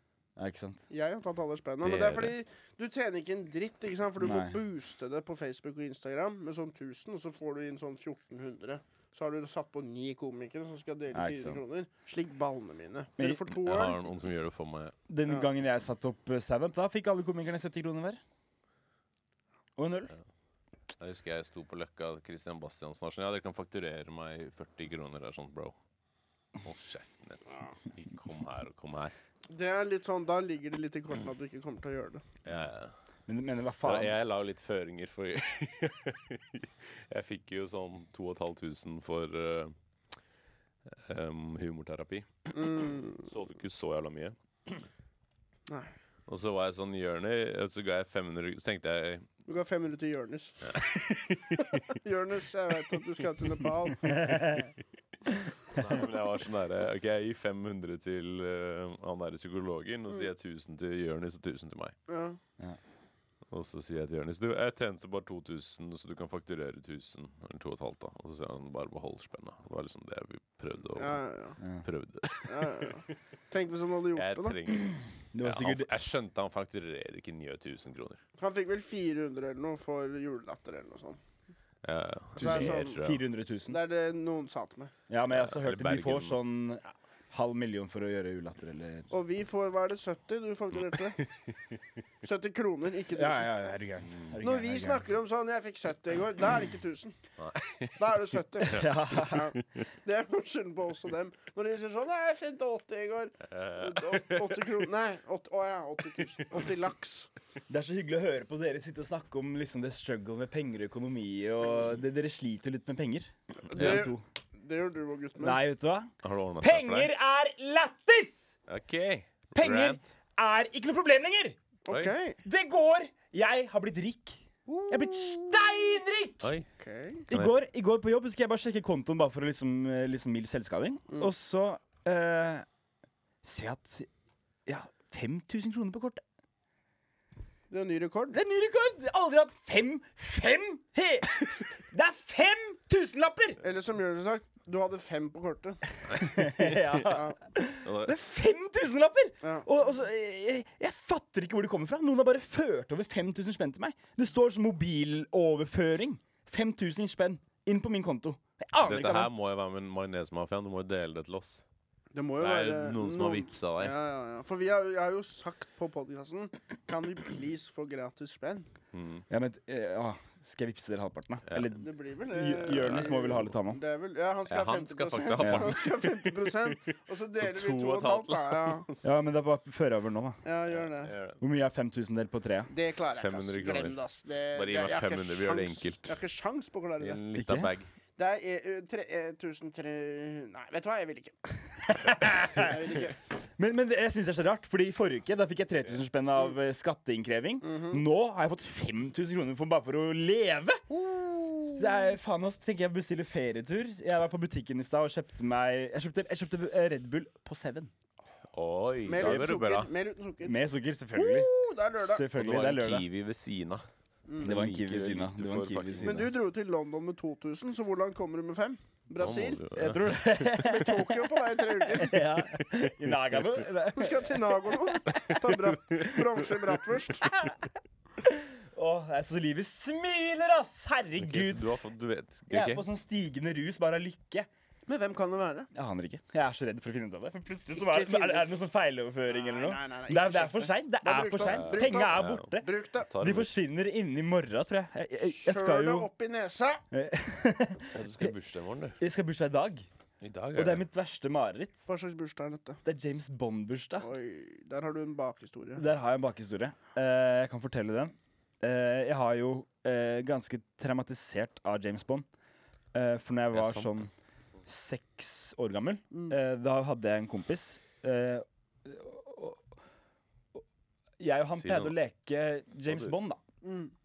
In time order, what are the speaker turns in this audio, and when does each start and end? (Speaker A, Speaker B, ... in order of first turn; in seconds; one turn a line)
Speaker A: 0.4-0.8
Speaker B: 0.9-14.0
Speaker C: 1.8-2.4
Speaker A: 4.2-4.6
Speaker A: 11.1-11.6
Speaker C: 13.5-14.9
Speaker A: 15.1-18.2
Speaker A: 19.8-20.1
Speaker C: 21.0-25.8
Speaker C: 26.6-29.1
Speaker B: 29.5-32.2
Speaker C: 32.5-32.9
Speaker A: 33.3-34.2
Speaker C: 33.8-39.8
Speaker C: 40.9-42.5
Speaker B: 42.5-43.3
Speaker C: 43.2-44.4
Speaker C: 46.3-49.3
Speaker B: 49.5-50.8
Speaker C: 50.7-51.8
Speaker B: 51.6-54.4
Speaker A: 54.1-54.7
Speaker C: 55.7-62.0
Speaker B: 62.1-62.4
Speaker C: 63.5-71.2
Speaker B: 71.0-71.6
Speaker C: 71.8-73.0
Speaker B: 72.5-74.6
Speaker C: 74.1-78.2
Speaker A: 75.3-75.9
Speaker B: 78.4-81.2
Speaker C: 81.8-83.2
Speaker B: 82.4-83.0
Speaker A: 82.4-83.8
Speaker B: 83.7-84.9
Speaker A: 85.1-89.1
Speaker C: 85.3-86.4
Speaker B: 89.1-91.2
Speaker C: 91.2-91.5
Speaker B: 92.2-93.5
Speaker A: 93.1-95.1
Speaker C: 94.1-94.3
Speaker B: 94.4-97.1
Speaker C: 97.4-98.1
Speaker B: 98.0-107.3
Speaker C: 98.6-99.8
Speaker A: 98.7-99.5
Speaker C: 103.4-104.7
Speaker A: 107.7-114.2
Speaker B: 113.7-115.6
Speaker C: 113.7-114.1
Speaker A: 115.4-118.4
Speaker C: 116.2-117.1
Speaker C: 118.7-120.1
Speaker A: 119.5-121.6
Speaker B: 121.9-122.4
Speaker C: 121.9-122.2
Speaker A: 122.5-126.5
Speaker B: 124.7-125.6
Speaker C: 126.4-126.7
Speaker B: 126.8-127.3
Speaker A: 127.3-132.7
Speaker A: 133.4-134.1
Speaker A: 134.7-136.2
Speaker B: 137.7-138.4
Speaker A: 138.3-143.6
Speaker B: 143.6-145.8
Speaker C: 146.1-147.2
Speaker A: 146.1-159.3
Speaker B: 147.1-147.4
Speaker C: 147.8-148.1
Speaker C: 158.8-161.6
Speaker B: 162.1-168.7
Speaker C: 162.4-164.0
Speaker C: 168.9-169.2
Speaker A: 169.3-173.8
Speaker B: 171.8-178.9
Speaker C: 172.7-173.3
Speaker C: 174.5-179.1
Speaker A: 175.4-175.7
Speaker A: 179.0-180.4
Speaker B: 180.4-181.1
Speaker C: 180.7-181.4
Speaker A: 181.4-182.7
Speaker B: 182.7-187.2
Speaker C: 183.2-184.0
Speaker C: 184.5-186.2
Speaker C: 187.0-187.9
Speaker A: 187.3-187.7
Speaker B: 188.2-191.4
Speaker A: 191.8-193.0
Speaker B: 192.3-193.2
Speaker A: 193.6-200.9
Speaker B: 197.6-198.0
Speaker B: 200.9-201.9
Speaker A: 201.8-207.9
Speaker C: 208.5-209.9
Speaker B: 209.1-210.6
Speaker A: 210.4-213.1
Speaker B: 211.1-212.2
Speaker C: 212.3-213.9
Speaker B: 214.3-214.6
Speaker C: 214.4-216.3
Speaker A: 214.4-216.3
Speaker B: 216.0-219.6
Speaker C: 219.2-220.7
Speaker A: 219.7-225.3
Speaker B: 220.5-222.3
Speaker B: 223.9-227.3
Speaker A: 228.2-231.7
Speaker C: 231.2-232.8
Speaker A: 232.5-234.5
Speaker B: 234.9-235.7
Speaker A: 235.7-246.1
Speaker B: 237.7-238.6
Speaker B: 239.3-243.1
Speaker C: 241.5-243.6
Speaker B: 245.3-246.8
Speaker A: 246.9-248.3
Speaker C: 247.9-249.0
Speaker A: 249.0-249.9
Speaker C: 250.2-250.8
Speaker A: 250.6-251.8
Speaker B: 251.9-252.8
Speaker A: 252.8-254.1
Speaker B: 254.0-255.8
Speaker A: 255.8-262.3
Speaker A: 262.9-264.1
Speaker C: 263.5-264.0
Speaker A: 264.7-269.7
Speaker B: 266.1-266.4
Speaker A: 271.2-273.4
Speaker C: 271.5-271.9
Speaker C: 272.9-273.2
Speaker B: 273.6-273.9